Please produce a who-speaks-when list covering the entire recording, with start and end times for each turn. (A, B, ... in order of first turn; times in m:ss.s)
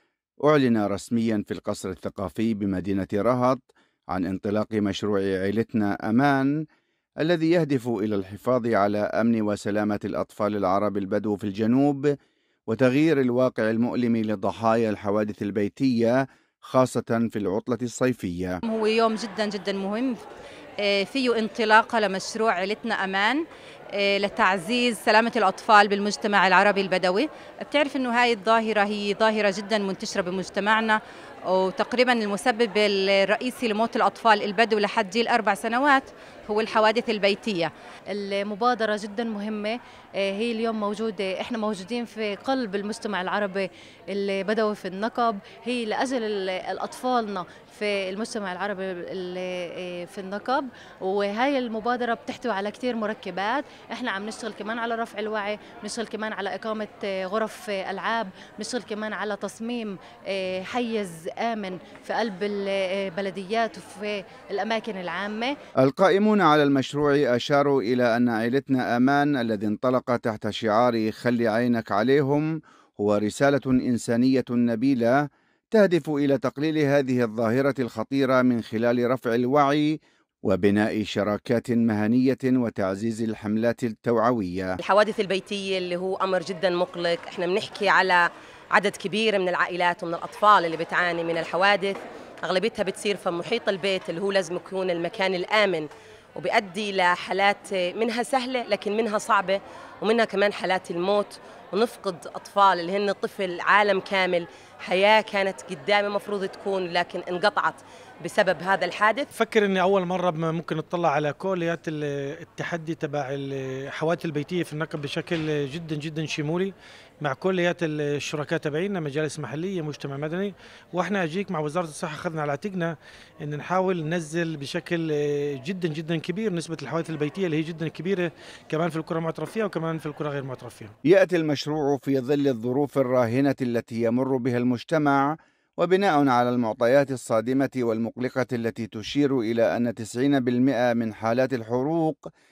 0:00.4-0:06.5 A
0:07.2-0:12.1 A
0:12.7-0:18.6 A
0:18.6-0:20.2 B
0:20.8-0:37.7 B
0:38.1-1:05.6 C
1:05.8-1:15.2 A
1:15.7-1:24.8 A
1:24.8-1:49.3 D
1:49.3-2:10.9 E
2:11.0-2:22.3 A